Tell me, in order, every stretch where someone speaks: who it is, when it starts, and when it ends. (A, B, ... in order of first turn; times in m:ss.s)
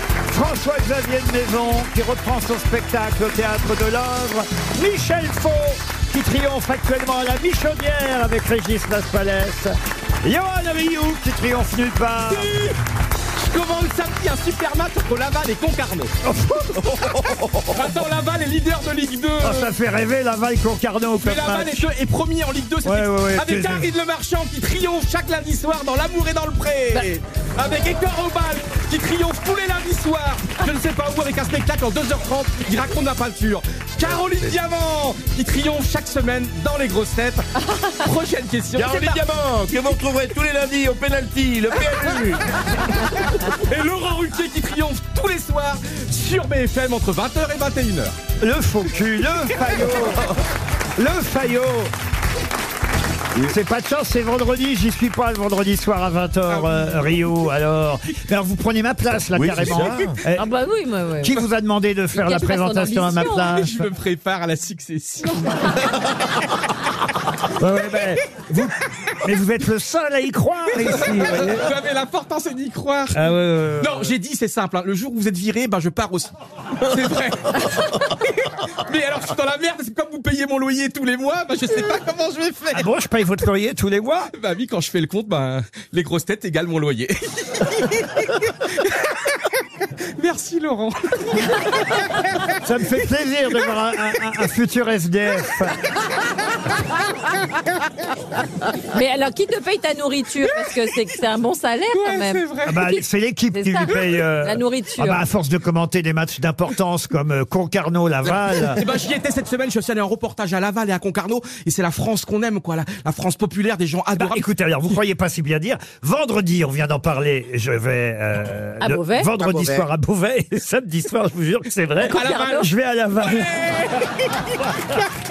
0:00.3-0:12.5 A
0:12.3-0:12.8 B
0:13.4-0:16.1 B
0:16.2-0:17.3 A
0:17.7-0:19.7 B
0:19.4-0:21.8 A
0:21.1-0:39.2 B
0:22.8-0:23.9 A
0:38.7-0:42.4 C
0:43.2-0:48.2 B
0:48.4-0:50.2 A
0:51.0-0:51.9 A
0:53.3-1:00.5 A
0:56.5-0:57.2 B
0:59.3-1:00.2 C
1:00.4-1:01.4 D
1:01.2-1:03.9 A
1:02.1-1:03.4 D
1:03.2-1:06.1 B
1:07.5-1:11.7 A
1:10.7-1:13.2 B
1:13.1-1:14.1 A
1:13.8-1:22.9 B
1:22.7-1:24.3 A
1:24.3-1:29.2 B
1:30.2-1:32.0 B
1:32.6-1:35.8 A
1:38.9-1:45.2 D
1:41.9-1:42.8 B
1:42.6-1:48.8 A
1:43.9-1:44.2 B
1:48.2-1:54.4 B
1:54.2-2:03.6 A
1:58.8-1:59.3 D
2:02.0-2:02.7 D
2:02.1-2:05.0 B